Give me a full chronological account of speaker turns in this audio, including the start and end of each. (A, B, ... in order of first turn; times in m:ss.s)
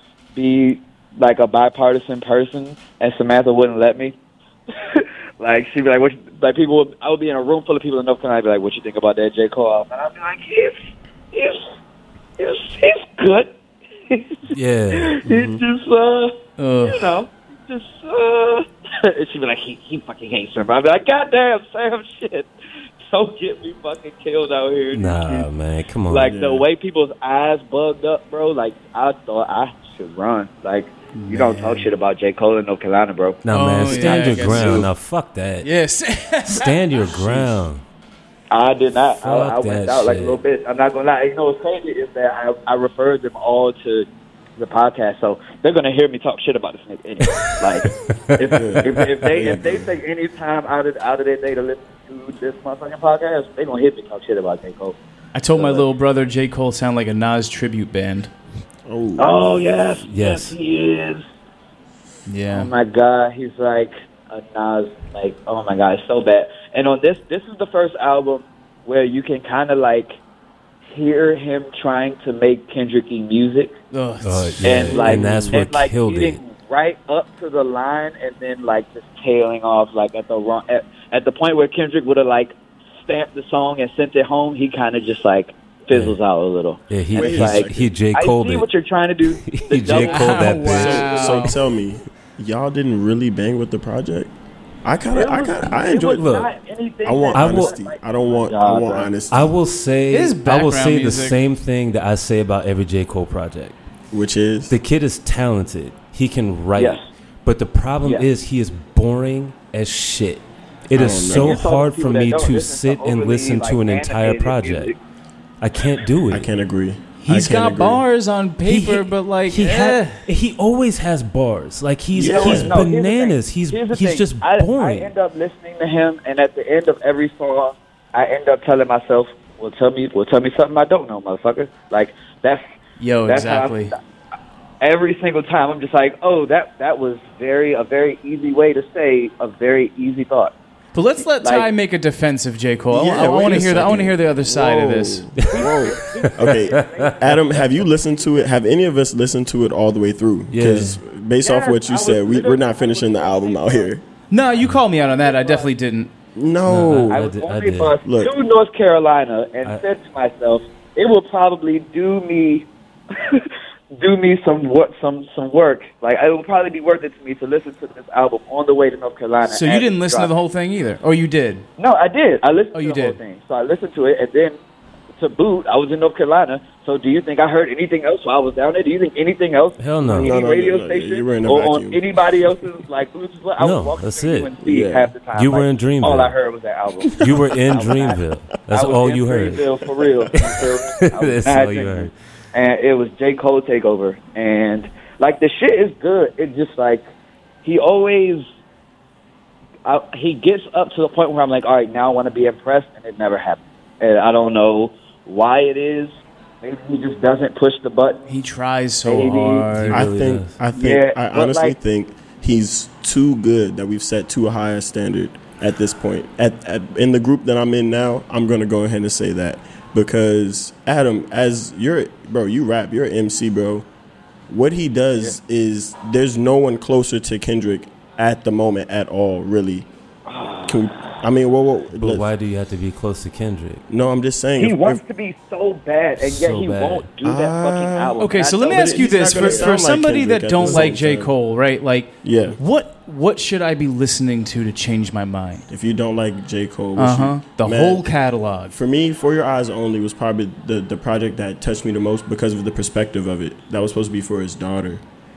0:00.3-0:04.2 A
0:04.7-0:10.8 A
0:11.3-0:11.6 A
0:12.4-0:13.6 A
0:14.1-0:22.5 A
0:14.5-0:15.6 B
0:16.6-0:17.1 C
0:23.0-0:25.5 A
0:24.9-0:26.3 B
0:26.1-0:34.9 A
0:26.2-0:26.7 D
0:31.1-0:31.9 C
0:33.4-0:35.7 B
0:33.5-0:34.9 C
0:35.6-0:36.8 C
0:36.5-0:37.8 B
0:37.1-0:37.7 D
0:38.5-0:55.0 A
0:39.2-0:40.4 B
0:47.3-0:48.0 B
0:48.5-0:49.9 D
0:48.6-0:49.6 B
0:55.4-0:58.3 C
0:55.6-0:55.9 A
0:58.9-0:59.5 D
0:59.2-1:01.2 A
1:00.0-1:00.6 B
1:02.3-1:02.7 C
1:02.5-1:10.2 A
1:10.8-1:13.7 A
1:13.9-1:14.7 C
1:14.2-1:16.4 B
1:14.6-1:31.4 A
1:14.9-1:15.6 D
1:25.9-1:26.2 B
1:26.9-1:28.7 B
1:27.1-1:27.9 D
1:29.3-1:31.3 B
1:30.0-1:31.6 C
1:30.5-1:34.3 D
1:34.8-1:36.3 D
1:35.1-1:39.1 A
1:36.1-1:36.5 B
1:37.0-1:39.6 D
1:37.4-1:37.7 B
1:39.3-1:43.8 B
1:40.1-1:41.4 C
1:44.1-1:44.8 D
1:44.7-1:54.9 B
1:46.8-1:47.0 A
1:50.9-1:51.6 D
1:51.1-1:55.0 A
1:55.6-1:56.5 B
1:56.3-1:58.0 D
1:57.2-2:00.2 C
1:58.6-2:05.1 B
2:02.1-2:02.9 D
2:02.2-2:12.7 A
2:13.0-2:14.0 C
2:13.3-2:14.0 A
2:14.8-2:20.5 A
2:20.9-2:25.3 C
2:21.4-2:21.7 A
2:22.9-2:34.0 D
2:25.5-2:28.5 A
2:26.2-2:27.1 B
2:30.5-2:31.0 B
2:31.4-2:33.9 A
2:34.3-2:36.1 C
2:34.9-2:35.7 A
2:36.4-2:37.2 D
2:36.7-2:38.0 B
2:37.1-2:50.3 A
2:38.0-2:38.3 D
2:49.5-2:51.7 C
2:51.8-2:54.6 A
2:52.7-2:53.2 C
2:55.2-3:08.2 A
2:59.8-3:00.4 B
3:00.1-3:02.0 D
3:03.6-3:04.5 B
3:04.6-3:05.1 D
3:05.3-3:06.3 B
3:07.0-3:07.3 D
3:07.2-3:09.7 B
3:08.7-3:17.1 A
3:10.0-3:10.3 D
3:10.5-3:12.1 B
3:17.6-3:18.4 A
3:19.8-3:28.2 A
3:28.3-3:30.1 C
3:29.0-3:29.8 A
3:29.8-3:30.6 B
3:29.9-3:43.9 D
3:30.8-3:31.7 A
3:44.5-3:49.9 D
3:50.3-3:51.2 A
3:50.7-3:52.3 D
3:51.9-3:53.8 B
3:53.9-3:55.0 D
3:54.6-3:59.8 A
3:56.2-3:57.1 B
3:57.2-4:01.3 D
3:58.2-4:05.7 C
4:00.6-4:00.9 B
4:02.2-4:02.6 D
4:05.7-4:08.1 D
4:07.0-4:08.8 C
4:08.7-4:15.0 D